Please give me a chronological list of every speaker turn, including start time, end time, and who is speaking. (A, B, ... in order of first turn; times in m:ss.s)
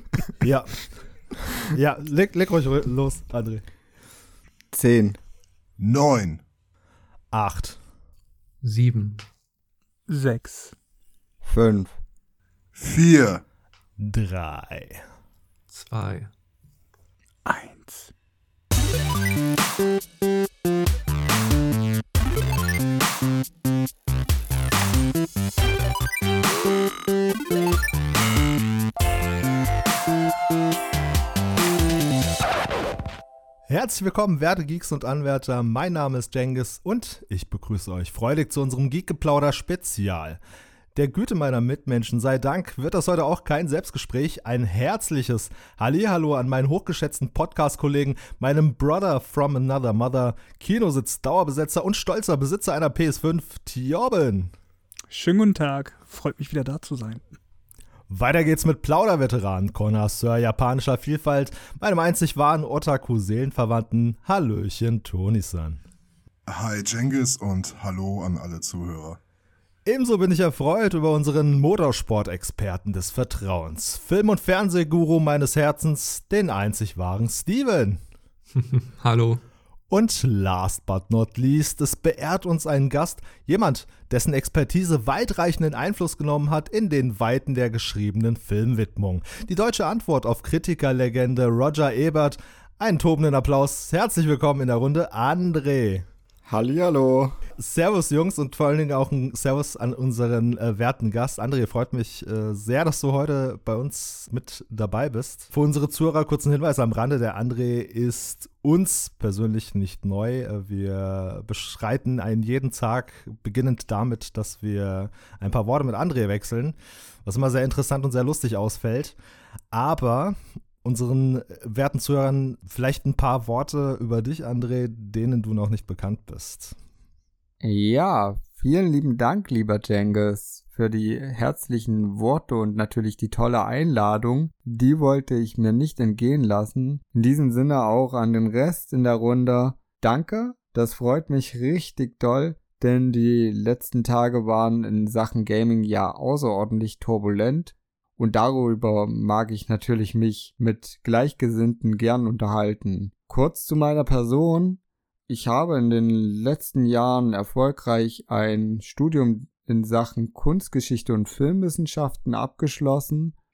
0:00.4-0:00.8 A
0:01.6-0:03.6 A
0:04.7-0:05.2 B
0:05.8-0:06.4 C
0:07.3-0:07.8 A
0:08.6-0:09.2 D
0:10.1-0:10.7 E
0:11.4-0:11.9 B
0:12.8-0:13.4 C
0:14.0-0:15.0 A
0:15.7-0:16.3 D
0:17.4-0:18.1 E
0:33.7-0:40.4 A
0:40.9-0:54.5 A
0:55.1-0:57.2 E
0:58.1-1:05.8 A
1:06.5-1:09.2 C
1:09.8-1:18.0 A
1:18.6-1:19.4 D
1:19.9-1:36.0 A
1:36.4-1:37.4 B
1:37.6-1:59.2 A
1:59.7-2:06.8 A
2:07.6-2:43.3 B